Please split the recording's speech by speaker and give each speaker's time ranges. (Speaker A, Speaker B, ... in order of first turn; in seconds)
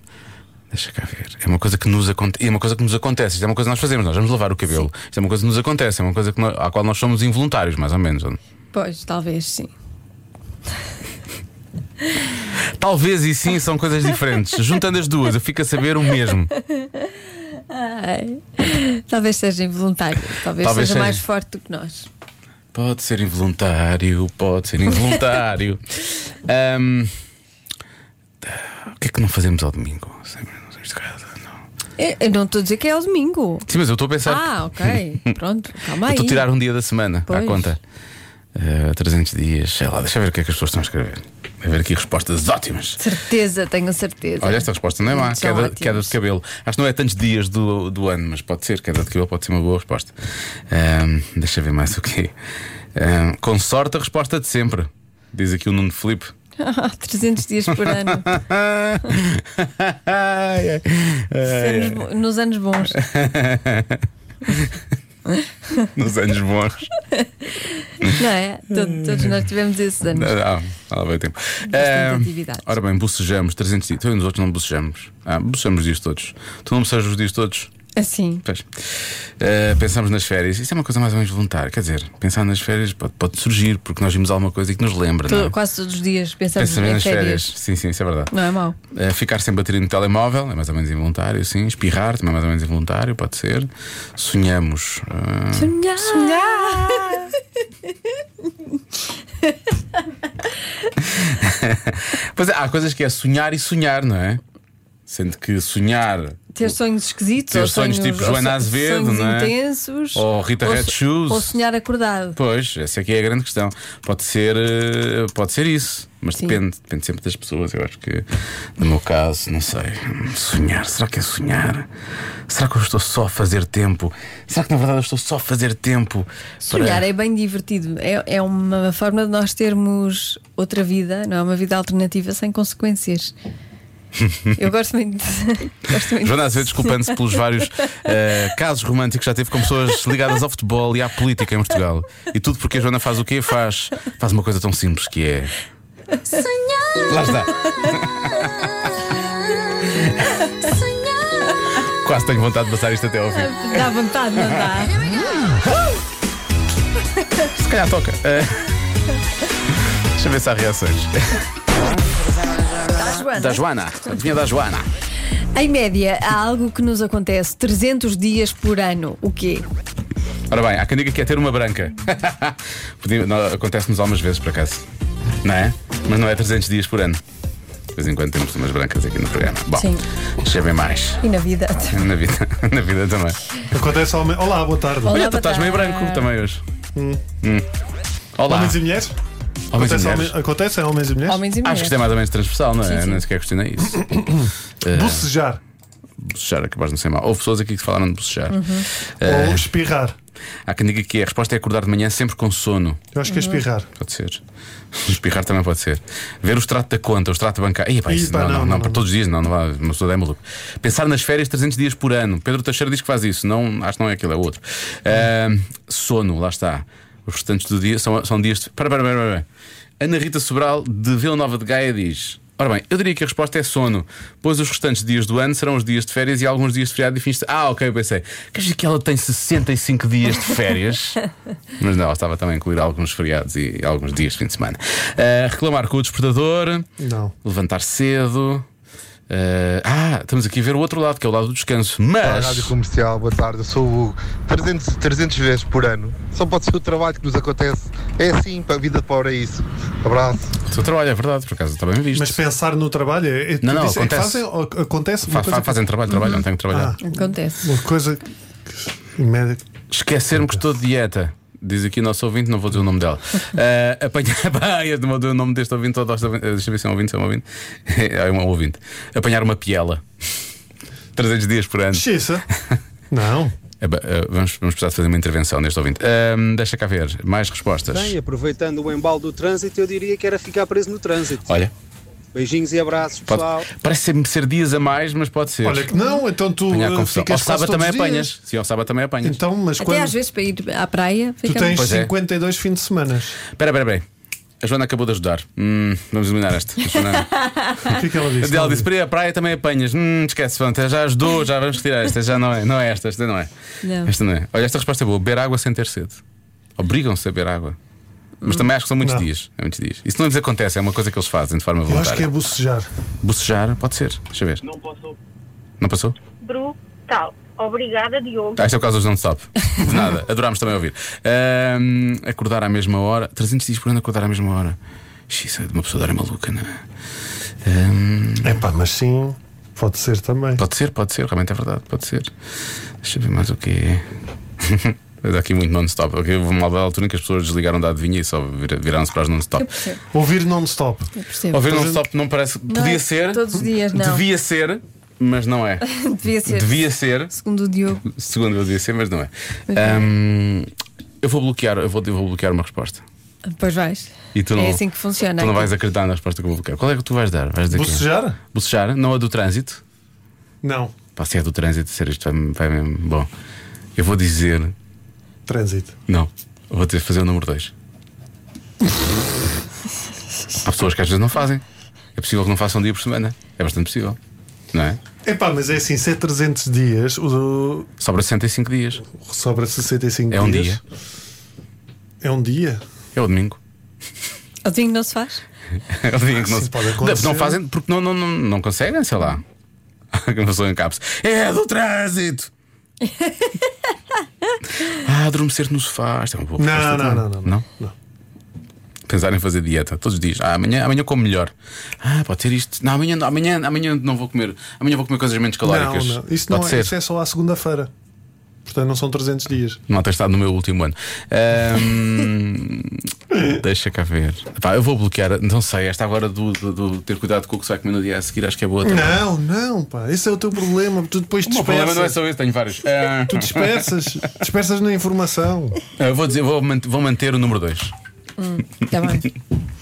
Speaker A: 0.7-8.4, 12.8-16.5, 20.6-21.2, 22.7-27.1, 28.4-31.5, 33.7-35.0, 36.0-37.8, 38.5-43.0, 44.4-50.1, 50.7-52.3, 52.9-56.3, 57.7-62.0, 62.9-64.7, 65.9-66.9, 68.8-69.4, 70.1-77.7, 78.4-85.5, 86.6-88.3, 88.9-97.2, 101.0-104.4, 105.1-106.5, 107.5-109.5, 110.1-111.6, 112.3-118.3, 118.8-121.9, 122.5-127.0, 134.2-134.6, 136.2-145.6, 147.1-148.7, 152.0-153.9, 157.5-158.8, 160.2-161.4, 163.2-164.9, 170.5-174.8, 175.4-177.2, 177.9-181.2, 181.9-183.4, 185.1-186.6, 188.4-188.8, 189.7-190.3, 191.6-194.2, 194.8-195.2, 196.2-198.7, 199.2-199.7, 200.7-203.0, 204.0-204.4, 204.9-219.4, 220.0-231.2, 231.8-236.9, 237.4-238.7, 239.3-242.7, 250.7-252.4, 253.6-254.4, 255.3-257.0, 259.9-270.0, 271.1-272.1, 273.8-278.1, 281.4-281.7, 283.2-285.9, 286.7-289.4, 291.7-292.1, 293.5-294.0, 294.6-297.4, 298.4-303.5, 304.0-306.2, 306.8-307.8, 308.4-312.3, 313.2-314.6, 315.8-316.2, 318.5-324.8, 325.3-326.8, 327.6-328.6, 330.6-332.3, 333.0-334.1, 334.6-339.7, 341.5-345.9, 346.4-347.3, 348.0-350.7, 351.2-353.0, 354.3-354.8, 355.4-359.8, 361.1-363.3, 363.9-364.7, 366.1-367.7, 370.6-371.6, 372.1-374.2, 374.7-375.0, 378.0-379.1, 380.3-380.8, 383.1-383.6, 385.9-389.4, 390.1-392.5, 394.9-397.6, 399.1-406.9, 409.9-419.2, 421.4-423.9, 426.0-427.9
Speaker B: 8.7-9.7, 17.7-22.1, 32.0-33.6, 34.2-36.4, 37.3-37.7, 43.0-46.1, 56.6-58.3, 61.4-63.0, 65.3-65.9, 67.1-70.3, 71.7-72.7, 78.0-78.4, 85.3-87.5, 88.3-88.8, 95.5-97.3, 106.5-112.4, 126.7-133.3, 134.6-137.1, 153.3-154.9, 162.9-163.6, 165.5-169.7, 179.7-180.0, 181.2-182.0, 185.0-186.3, 191.3-192.0, 192.8-193.2, 198.5-198.8, 203.3-203.6, 256.1-256.4, 257.0-257.6, 289.8-291.8, 297.4-297.9, 303.8-304.1, 339.6-340.0, 341.1-341.6, 342.7-344.2, 345.9-348.1, 349.7-350.1, 353.5-355.7, 384.6-385.4, 393.1-393.5, 428.4-429.3
Speaker C: 183.7-185.2, 186.9-187.2, 188.5-189.2, 189.7-191.4, 194.0-195.6, 199.2-200.2, 203.1-203.9, 208.1-209.0, 237.0-237.3, 252.1-255.8, 256.7-257.0, 257.6-259.6, 271.9-272.4, 273.1-273.5, 285.6-288.3, 289.2-290.1, 291.4-293.4, 297.9-298.9, 309.0-309.2, 311.9-312.9, 328.4-330.6, 340.1-341.1, 341.6-342.0, 357.7-358.4, 360.6-360.9, 365.5-365.9, 375.2-377.9, 379.2-380.8, 382.2-382.8, 386.3-387.6, 396.6-397.9, 405.6-407.9, 408.6-409.8, 418.8-422.2, 423.2-425.8
Speaker D: 242.2-250.5
Speaker E: 277.9-281.6, 282.3-283.6
Speaker F: 316.4-318.6